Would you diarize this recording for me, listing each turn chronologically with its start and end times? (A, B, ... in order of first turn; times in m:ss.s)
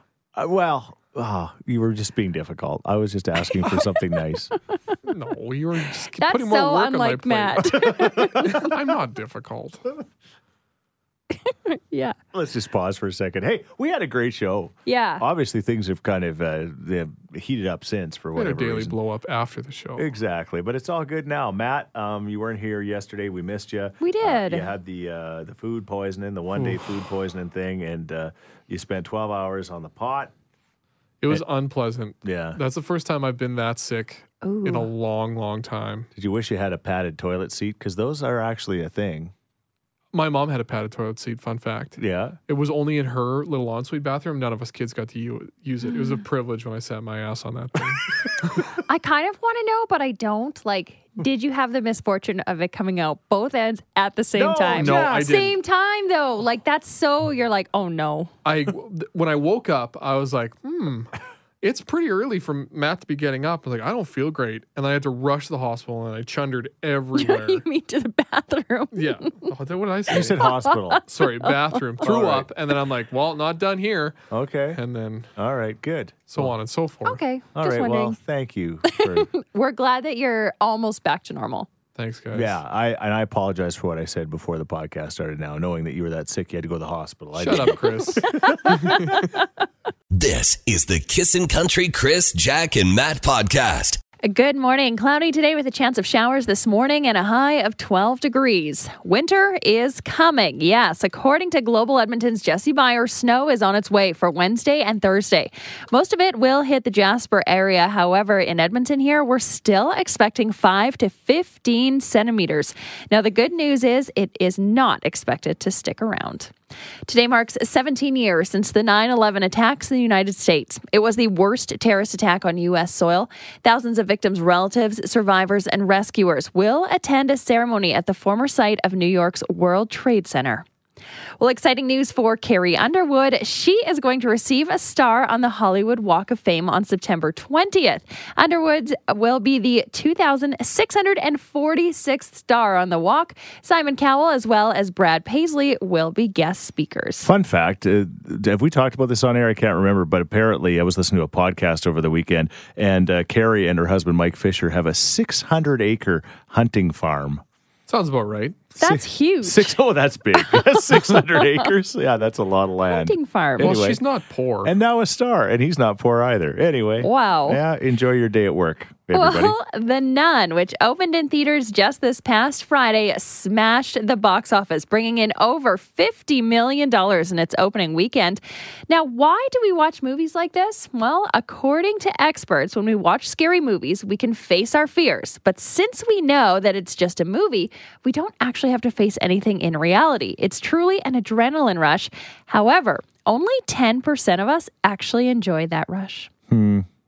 0:00.4-0:04.5 A
0:05.0-0:07.7 B
0:06.2-0:08.7 C
0:07.8-0:08.4 A
0:08.3-0:09.8 B
0:11.4-0:12.2 C
0:12.3-0:19.0 A
0:14.8-0:15.2 C
0:18.4-0:20.1 B
0:20.0-0:30.3 A
0:24.0-0:24.7 C
0:26.5-0:26.8 B
0:31.2-0:36.1 B
0:32.2-0:32.6 A
0:34.4-0:34.9 C
0:36.2-0:39.3 A
0:40.1-0:48.7 B
0:42.0-0:42.4 A
0:45.9-0:46.2 C
0:48.8-0:58.3 C
0:54.3-0:55.3 A
0:54.8-0:55.6 B
0:58.4-1:07.6 B
1:07.2-1:09.5 C
1:08.9-1:10.4 B
1:10.1-1:11.0 A
1:10.4-1:11.8 C
1:11.1-1:14.2 B
1:12.0-1:12.5 A
1:14.3-1:14.8 A
1:14.7-1:15.3 B
1:15.4-1:16.5 A
1:16.3-1:17.2 B
1:17.0-1:18.2 C
1:17.5-1:19.3 A
1:18.8-1:21.7 C
1:22.0-1:22.6 B
1:22.3-1:28.7 A
1:27.4-1:28.2 B
1:28.2-1:29.4 C
1:28.8-1:29.1 B
1:30.1-1:34.0 D
1:34.2-1:56.5 C
1:57.1-2:10.6 C
2:11.4-2:27.3 C
2:27.2-2:37.4 A
2:37.9-2:38.6 B
2:38.8-2:44.0 A
2:38.8-2:39.7 C
2:40.4-2:41.6 C
2:42.9-2:43.8 C
2:43.6-2:44.7 B
2:44.6-2:49.6 A
2:47.0-2:47.6 C
2:49.1-3:16.3 C
3:16.5-3:16.8 A